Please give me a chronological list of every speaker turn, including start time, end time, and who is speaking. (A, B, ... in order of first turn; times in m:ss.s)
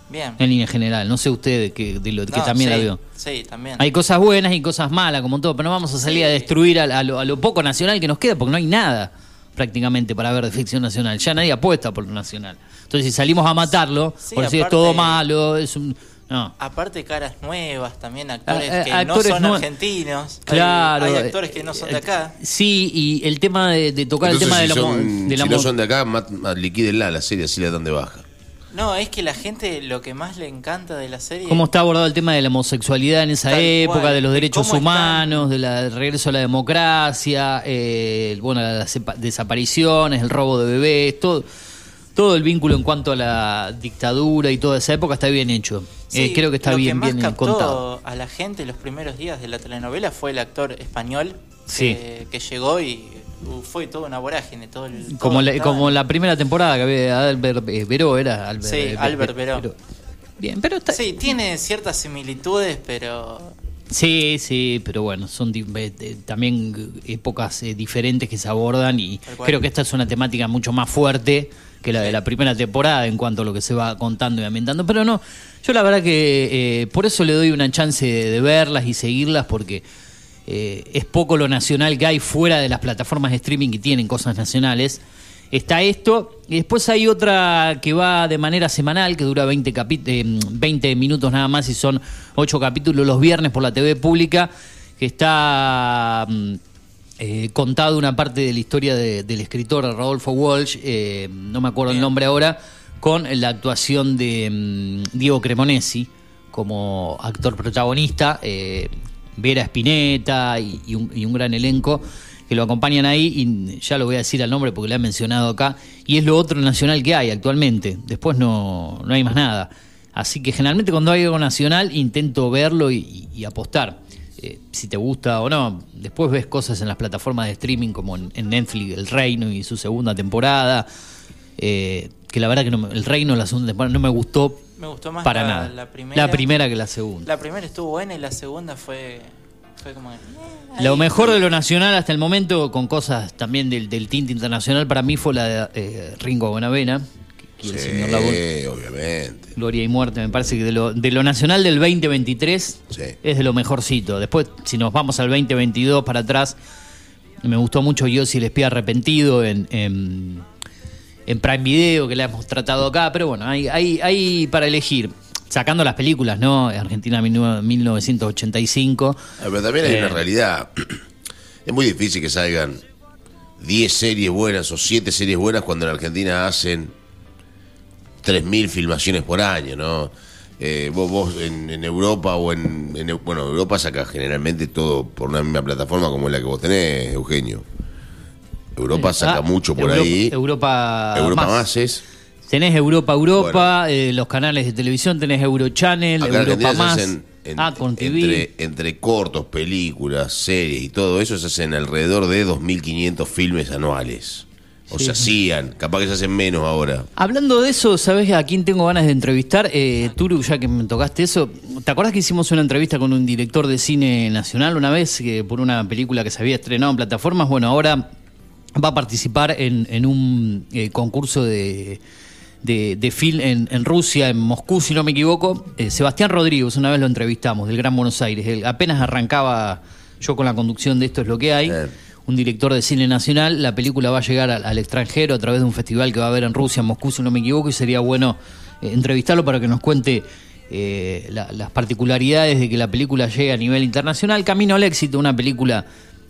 0:00.1-0:00.4 A
0:00.4-0:03.0 B
0:02.3-0:03.8 A
0:03.8-0:16.5 B
0:06.0-0:06.5 A
0:14.2-0:15.2 A
0:16.6-0:22.4 A
0:18.5-0:19.6 B
0:20.5-0:25.7 B
0:24.2-0:28.2 C
0:28.7-0:31.7 A
0:31.5-0:41.5 B
0:33.5-0:35.5 A
0:42.2-0:47.8 B
0:46.1-0:56.0 A
0:51.7-0:52.0 B
0:55.1-0:59.8 B
0:58.6-0:59.7 A
1:00.4-1:01.0 B
1:00.9-1:03.6 A
1:03.9-1:19.8 B
1:09.3-1:09.6 A
1:20.5-1:36.6 B
1:37.2-2:10.9 B
2:11.6-2:14.6 B
2:14.8-2:16.5 A
2:15.2-2:17.3 B
2:17.2-2:21.2 A
2:20.8-2:27.1 B
2:27.6-2:28.4 B
2:27.6-2:29.5 C
2:29.6-2:36.6 B
2:32.9-2:33.2 C
2:37.4-2:40.4 B
2:41.3-2:49.2 B
2:49.4-2:51.0 C
2:49.8-2:50.2 B
2:51.7-2:52.8 C
2:53.6-2:56.9 C
2:58.2-3:07.6 C
3:08.8-3:10.4 C
3:08.9-3:11.7 B
3:11.1-3:12.0 C
3:12.5-3:18.5 B
3:13.4-3:13.7 C
3:16.2-3:27.1 C
3:24.9-3:25.3 B
3:27.2-3:38.1 B
3:38.8-3:42.0 B
3:42.6-4:05.9 B
3:51.7-3:51.9 C